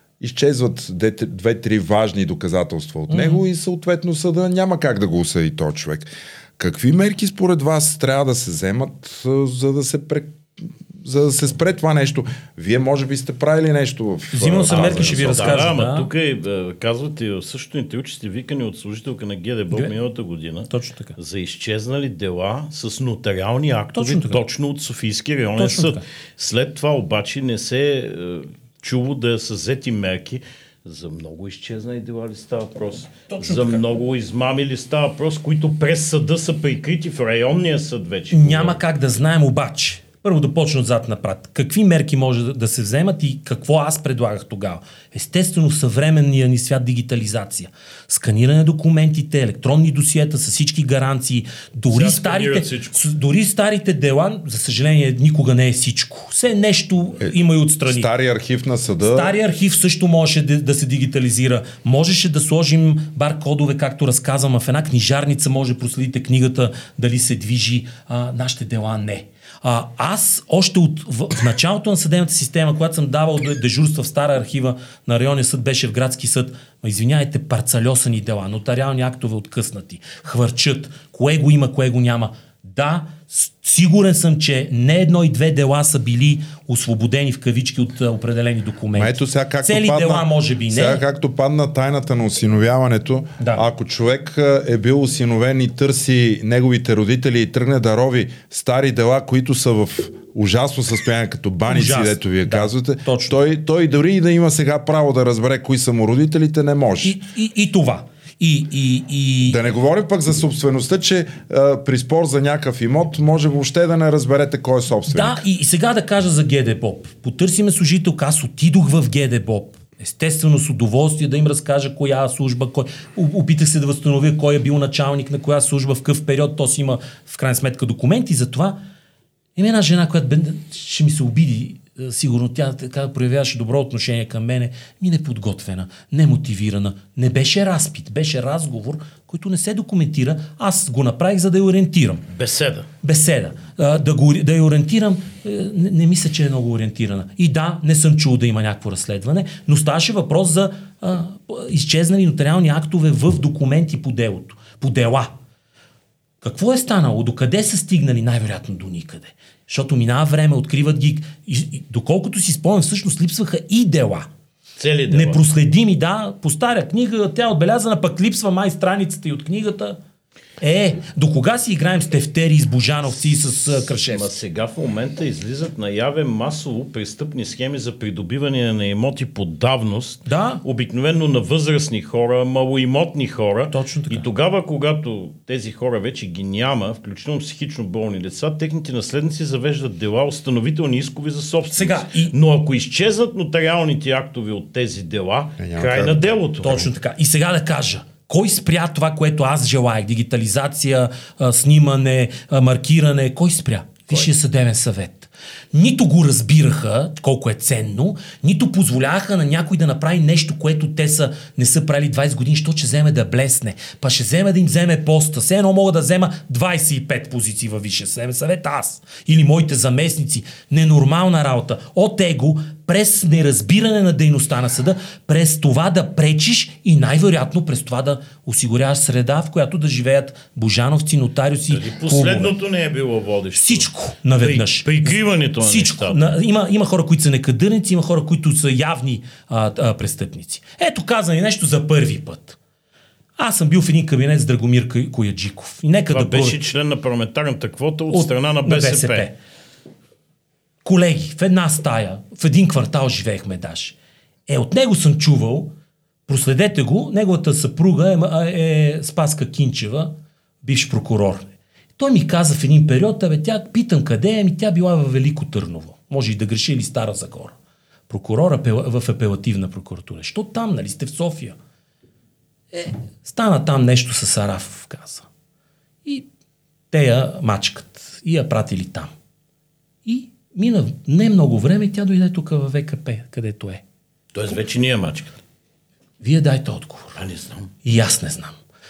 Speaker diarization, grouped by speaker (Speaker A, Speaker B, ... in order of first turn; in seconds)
Speaker A: 0.2-15.7, 57.2-59.3, 88.9-107.2, 109.5-115.4, 195.6-196.4
Speaker B: 3.1-3.4, 14.3-16.1, 20.7-21.2, 23.9-24.4, 25.6-26.0, 33.3-33.8, 38.3-58.1, 59.0-91.0, 101.7-103.4, 107.0-109.6, 115.1-128.8, 129.6-142.2, 143.0-155.3, 156.4-164.3, 165.1-170.0, 170.6-174.3, 180.3-180.6, 183.7-184.3, 191.7-192.3, 196.6-232.6, 233.5-242.6, 243.4-246.6, 248.1-249.3, 250.8-254.0, 254.5-255.7, 256.3-261.5, 262.0-267.6, 268.1-271.6, 272.7-275.3, 276.9-279.1, 280.1-283.8, 286.2-287.2, 287.8-288.6
Speaker C: 14.7-38.8, 51.9-53.0, 142.3-142.9, 164.8-165.4, 173.9-196.9, 231.7-233.9, 234.4-236.2, 246.1-249.3, 284.3-285.4, 287.2-287.7